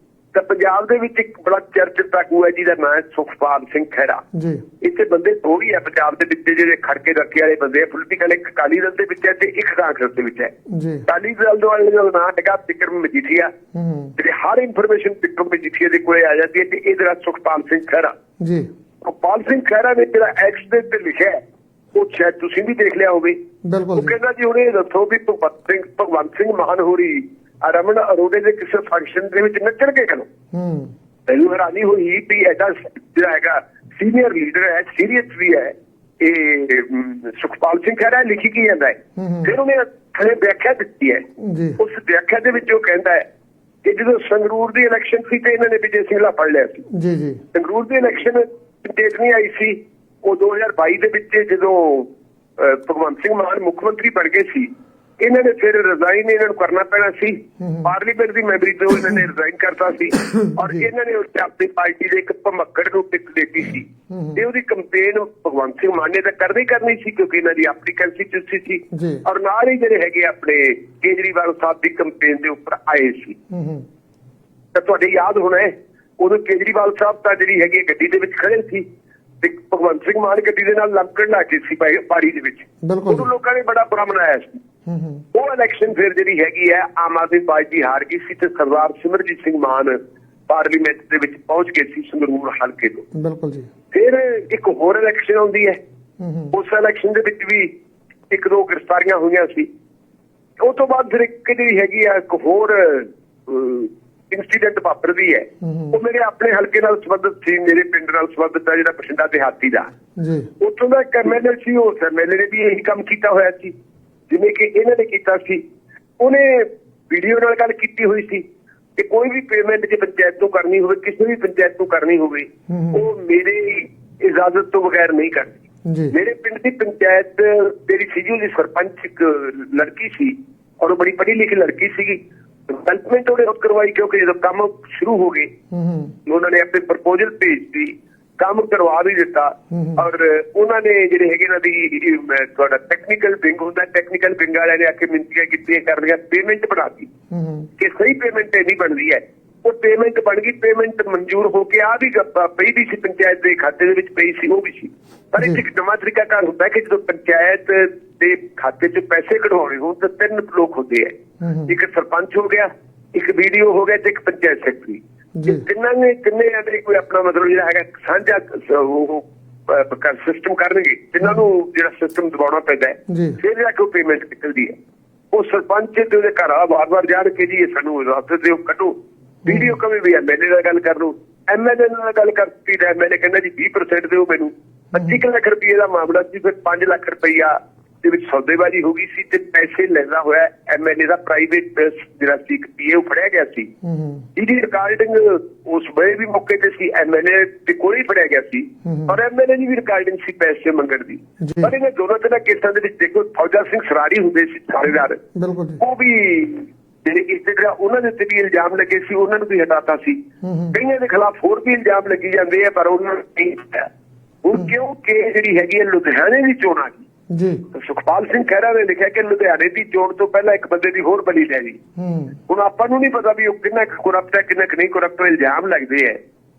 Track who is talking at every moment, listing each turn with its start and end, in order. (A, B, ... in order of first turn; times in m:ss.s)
0:00.3-0:04.2 A
0:04.3-0:04.7 B
0:04.8-0:10.5 A
0:10.7-0:11.0 B
0:11.1-0:13.5 A
0:13.7-0:14.1 B
0:14.2-0:18.2 A
0:18.4-0:18.7 B
0:19.0-0:21.4 A
0:21.9-0:23.4 A
0:23.6-0:24.2 B
0:23.9-0:30.3 A
0:30.5-0:30.9 B
0:31.3-0:41.2 A
0:39.2-0:39.5 B
0:41.4-0:41.8 B
0:41.8-0:43.2 A
0:43.8-0:46.9 A
0:46.9-0:47.4 B
0:47.5-1:13.4 A
0:57.6-0:57.9 B
1:00.2-1:00.9 B
1:04.1-1:04.4 B
1:08.9-1:09.2 B
1:13.5-1:13.9 B
1:14.7-1:18.8 A
1:19.4-1:24.6 A
1:22.8-1:23.3 B
1:24.9-1:25.2 B
1:25.3-1:33.1 A
1:33.1-1:33.7 B
1:33.9-1:35.8 A
1:36.2-1:36.6 B
1:36.5-1:37.7 A
1:38.3-1:39.7 A
1:40.6-1:49.9 A
1:45.6-1:46.0 B
1:50.2-1:50.5 B
1:50.6-1:53.7 A
1:54.3-1:55.6 A
1:56.2-1:58.4 A
1:59.0-2:05.6 A
2:02.7-2:03.1 B
2:05.9-2:06.2 B
2:06.1-2:15.5 A
2:15.7-2:16.2 B
2:16.3-2:27.1 A
2:19.7-2:20.0 B
2:27.3-2:27.7 B
2:27.8-2:54.8 A
2:35.4-2:35.6 B
2:41.4-2:41.7 B
2:45.4-2:45.6 B
2:53.1-2:53.4 B
2:55.3-3:13.7 A
2:59.4-2:59.7 B
3:05.0-3:05.2 B
3:13.8-3:14.3 B
3:14.4-3:25.2 A
3:18.8-3:19.2 B
3:21.4-3:21.7 B
3:25.4-3:25.8 B
3:25.8-3:30.2 A
3:30.4-3:30.8 B
3:30.7-3:33.9 A
3:34.4-3:37.1 A
3:37.3-3:37.6 B
3:37.7-3:41.8 A
3:42.0-3:42.4 B
3:42.5-3:46.2 A